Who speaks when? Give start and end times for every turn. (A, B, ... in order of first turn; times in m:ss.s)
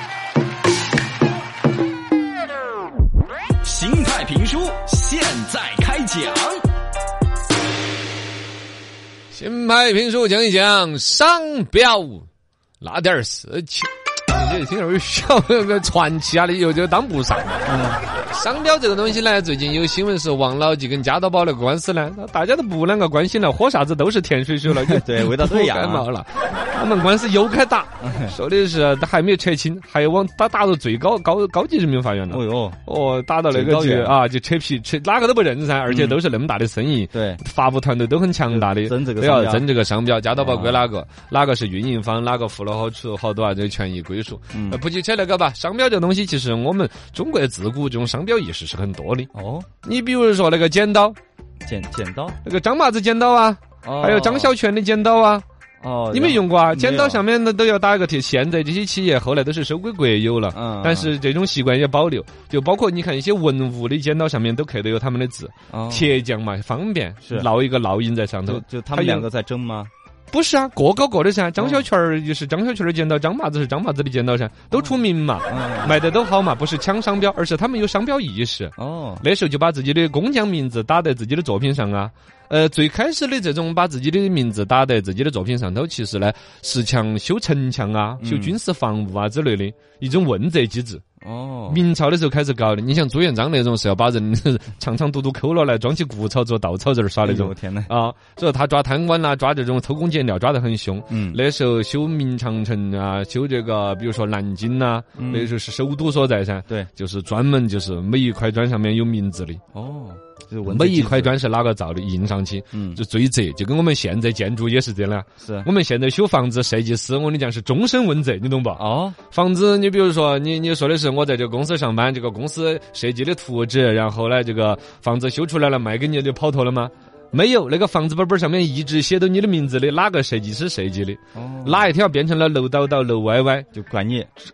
0:03.6-0:06.6 A
0:09.3-0:12.3 B
0:12.8-0:17.6 B
0:17.6-0:18.1 C
0:18.1-0:49.3 B
0:24.8-0:26.1 C
0:28.0-0:28.4 C
0:32.3-0:32.8 C
0:33.5-0:34.2 C
0:35.9-0:36.2 C
0:37.1-0:37.4 C
0:38.5-0:39.7 C
0:40.4-0:40.9 C
0:44.5-0:44.8 C
0:49.3-0:49.7 C
0:49.8-0:51.2 B
0:51.6-0:52.4 C
0:52.4-0:55.4 B
0:53.8-0:54.5 C
0:55.8-0:57.2 C
0:56.1-1:09.3 B
1:00.5-1:01.1 C
1:05.7-1:06.2 C
1:07.2-1:07.5 C
1:08.5-1:09.9 C
1:10.3-1:31.0 B
1:11.6-1:11.9 C
1:14.7-1:16.0 C
1:18.8-1:19.2 C
1:28.2-1:28.6 C
1:31.2-1:31.8 C
1:31.7-1:49.6 B
1:37.2-1:37.9 C
1:41.1-1:41.4 C
1:45.2-1:45.5 C
1:49.7-1:51.4 C
1:50.6-2:13.7 B
1:52.7-1:53.0 C
1:55.4-1:55.7 C
1:58.8-1:59.2 C
2:11.4-2:11.9 C
2:13.7-2:14.3 C